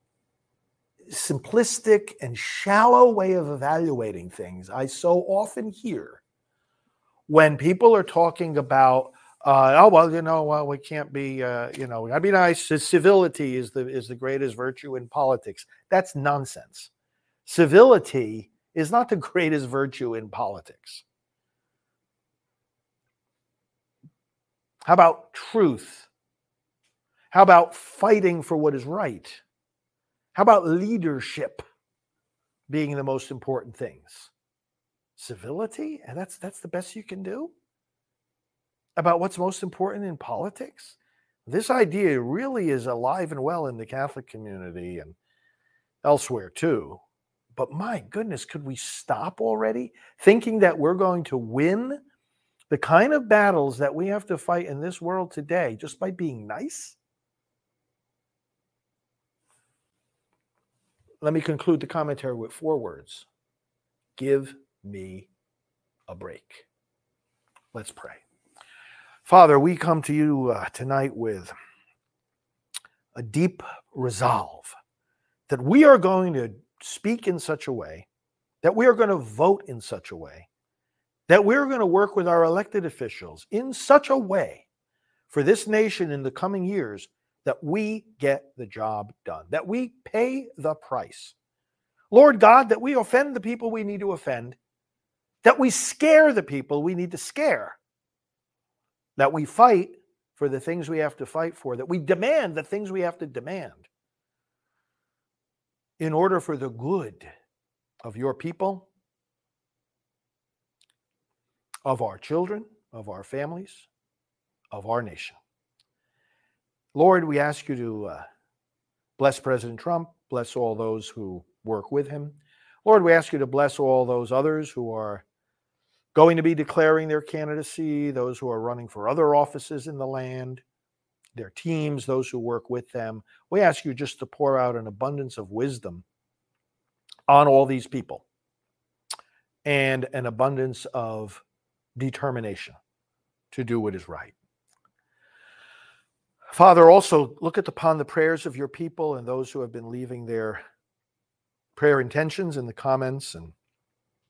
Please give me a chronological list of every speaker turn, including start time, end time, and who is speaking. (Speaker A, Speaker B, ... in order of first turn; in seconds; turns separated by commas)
Speaker A: 1.1-6.2, Speaker A: 7.3-16.9, Speaker A: 17.4-21.0, Speaker A: 24.8-26.1, Speaker A: 27.3-29.4, Speaker A: 30.3-31.6, Speaker A: 32.7-34.3, Speaker A: 35.2-37.5, Speaker A: 39.0-45.1, Speaker A: 46.0-47.0, Speaker A: 47.5-52.0, Speaker A: 52.7-57.0, Speaker A: 61.2-63.2, Speaker A: 64.2-65.3, Speaker A: 66.1-66.7, Speaker A: 67.7-68.2, Speaker A: 69.2-71.5, Speaker A: 73.1-74.7, Speaker A: 75.5-78.1, Speaker A: 78.6-80.5, Speaker A: 81.3-84.7, Speaker A: 85.3-91.3, Speaker A: 92.1-94.6, Speaker A: 95.4-97.8, Speaker A: 99.2-103.9, Speaker A: 106.0-107.3, Speaker A: 108.0-108.9, Speaker A: 111.8-113.9, Speaker A: 114.7-115.4, Speaker A: 116.9-118.2, Speaker A: 119.2-125.2, Speaker A: 126.1-130.6, Speaker A: 131.3-136.0, Speaker A: 137.3-138.2, Speaker A: 139.6-141.4, Speaker A: 141.9-142.8, Speaker A: 143.5-144.3, Speaker A: 146.5-150.6, Speaker A: 151.8-153.5